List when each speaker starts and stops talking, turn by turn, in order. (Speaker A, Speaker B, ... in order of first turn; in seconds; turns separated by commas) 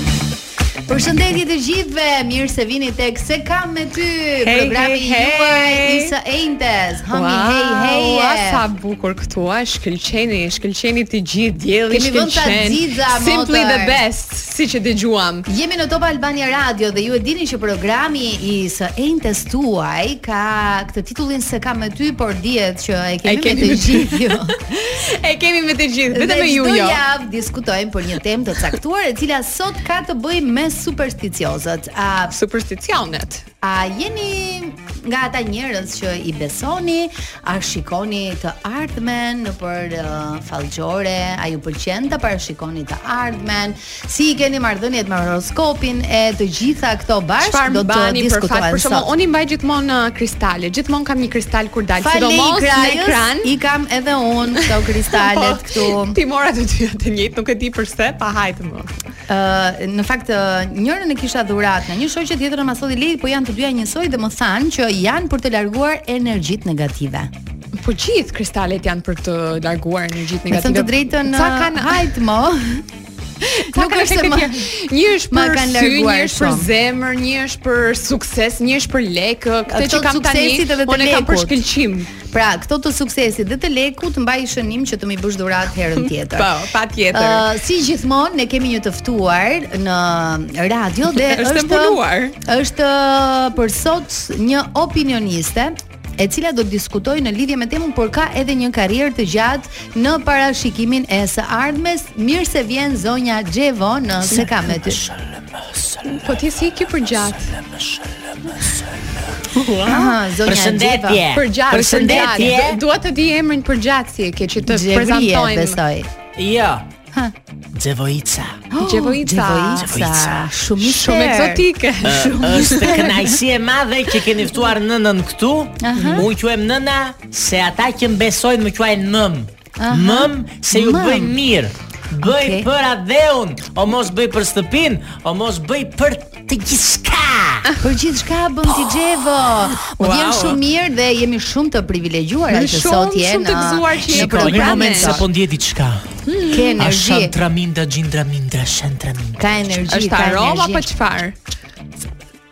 Speaker A: 0.9-8.6, Speaker B: 4.4-6.1, Speaker B: 7.1-15.5, Speaker A: 11.9-14.0, Speaker A: 15.5-24.5, Speaker B: 23.2-27.0, Speaker A: 26.1-32.3, Speaker B: 32.3-33.4, Speaker A: 33.6-49.1, Speaker B: 47.4-53.5, Speaker A: 52.0-56.1, Speaker B: 55.1-58.9, Speaker A: 59.3-67.3, Speaker B: 67.8-72.0, Speaker A: 70.5-72.8, Speaker B: 73.4-82.1, Speaker A: 73.7-74.7, Speaker A: 75.3-76.7, Speaker A: 79.7-81.6, Speaker A: 82.2-86.5, Speaker B: 85.9-87.5, Speaker A: 87.1-105.0, Speaker B: 91.2-92.3, Speaker C: 104.2-106.3, Speaker B: 106.2-107.5, Speaker C: 107.2-109.2, Speaker B: 109.5-110.1, Speaker A: 109.8-111.2, Speaker C: 110.4-112.8, Speaker B: 111.3-115.8, Speaker A: 114.6-116.1, Speaker C: 116.3-116.9, Speaker C: 117.7-118.6, Speaker A: 118.7-123.3, Speaker B: 118.8-119.9, Speaker C: 119.8-120.5, Speaker B: 120.8-123.0, Speaker C: 122.0-137.7, Speaker A: 125.8-126.3, Speaker A: 129.8-131.3, Speaker A: 132.2-132.7, Speaker A: 137.8-145.2, Speaker B: 140.0-140.6, Speaker B: 142.5-145.2, Speaker C: 144.1-146.1, Speaker B: 146.3-146.6, Speaker A: 146.4-147.3, Speaker C: 146.8-149.8, Speaker A: 149.4-150.9, Speaker B: 149.9-151.3